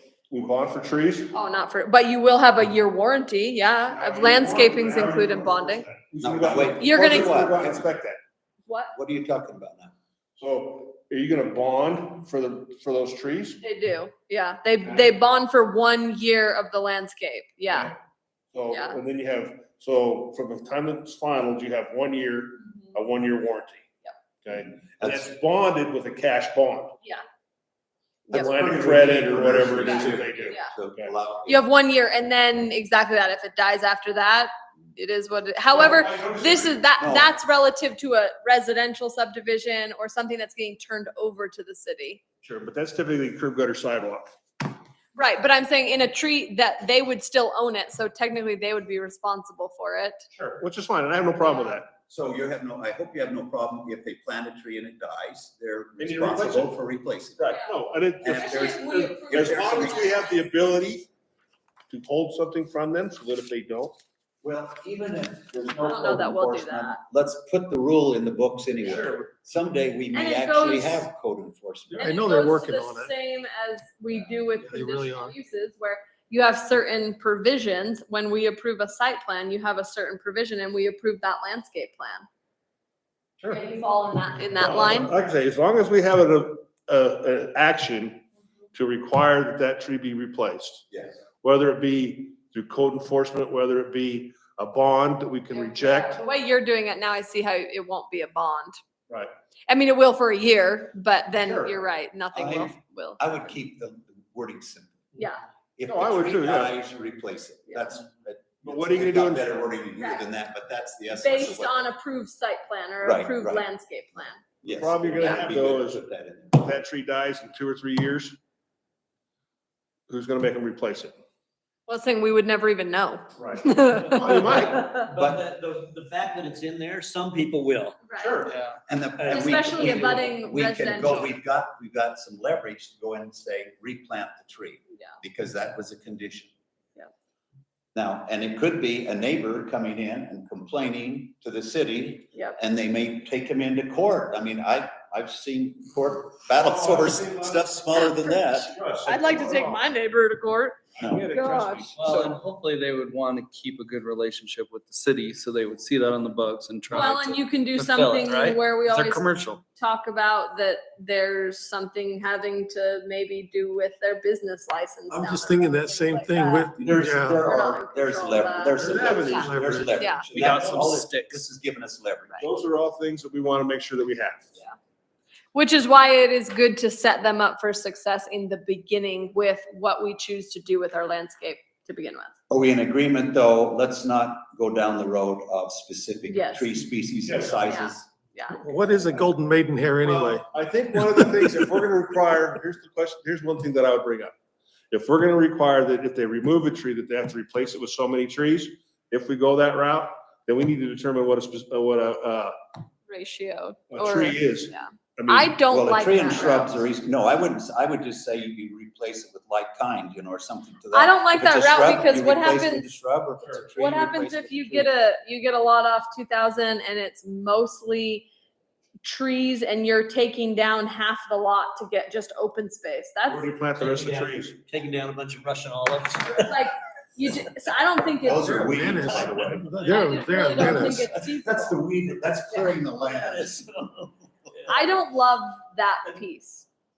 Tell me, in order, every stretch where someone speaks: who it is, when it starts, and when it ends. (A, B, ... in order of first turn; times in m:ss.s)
0:00.3-0:01.3 A
0:01.3-0:05.8 B
0:03.9-0:08.2 A
0:06.2-0:07.8 C
0:06.8-0:07.4 B
0:08.7-0:08.9 B
0:08.9-0:09.9 C
0:10.4-0:13.6 A
0:13.6-0:17.9 B
0:18.5-0:23.8 A
0:18.7-0:19.0 B
0:24.4-0:26.9 A
0:24.8-0:25.2 C
0:28.3-0:31.1 A
0:28.3-0:31.6 C
0:30.0-0:30.7 B
0:31.5-0:42.2 B
0:35.7-0:36.8 A
0:37.0-0:37.3 C
0:42.4-0:44.3 A
0:45.2-0:50.2 B
0:50.5-0:51.9 A
0:51.4-0:51.7 B
0:52.1-0:57.4 C
0:56.0-0:56.7 A
0:57.4-1:01.1 A
0:58.2-0:58.7 C
0:58.3-1:00.4 B
0:59.3-1:00.2 C
1:01.9-1:04.0 A
1:04.4-1:12.1 C
1:05.8-1:07.0 B
1:10.1-1:11.0 B
1:12.0-1:13.1 D
1:12.0-1:22.2 B
1:14.6-1:15.3 D
1:23.5-1:25.1 B
1:24.6-1:28.2 A
1:28.7-1:30.8 A
1:31.4-1:36.2 A
1:35.5-1:38.8 B
1:39.7-1:43.4 B
1:41.4-1:41.7 A
1:42.3-1:45.0 C
1:45.8-1:51.8 C
1:45.9-1:46.7 A
1:48.6-1:49.5 A
1:50.0-1:50.2 B
1:51.1-1:54.4 B
1:53.0-1:53.6 C
1:54.6-1:56.6 C
1:54.7-1:56.0 A
1:56.6-1:58.4 A
2:00.1-2:01.1 A
2:01.9-2:05.0 B
2:03.4-2:04.9 A
2:04.7-2:08.0 E
2:05.1-2:05.4 C
2:08.0-2:08.4 B
2:08.2-2:08.5 A
2:08.4-2:08.8 F
2:08.9-2:16.5 C
2:09.2-2:10.1 E
2:09.3-2:11.3 B
2:17.9-2:28.8 C
2:26.6-2:27.6 A
2:28.8-2:29.8 A
2:29.0-2:30.8 B
2:31.0-2:31.3 C
2:31.0-2:32.4 A
2:31.3-2:32.0 B
2:32.0-2:39.6 F
2:36.9-2:46.8 B
2:45.1-2:47.4 D
2:46.8-2:52.4 C
2:47.3-2:50.3 B
2:48.8-2:49.7 A
2:49.3-2:49.9 D
2:50.3-2:51.4 F
2:52.4-2:54.5 A
2:55.5-3:02.3 B
3:02.5-3:08.1 C
3:06.3-3:06.7 B
3:07.3-3:07.5 A
3:07.6-3:08.7 B
3:08.6-3:10.4 D
3:10.0-3:14.3 A
3:11.1-3:11.4 D
3:14.9-3:22.5 A
3:23.1-3:26.8 B
3:23.9-3:25.6 A
3:25.7-3:34.9 C
3:30.9-3:32.9 B
3:33.7-3:38.3 B
3:39.0-3:43.5 B
3:43.3-3:44.6 A
3:43.7-3:46.6 E
3:46.4-3:49.2 B
3:48.2-3:49.8 C
3:48.5-3:51.0 D
3:49.1-3:49.7 A
3:49.8-3:51.8 B
3:50.5-3:54.1 C
3:53.0-3:53.5 E
3:54.7-3:56.6 B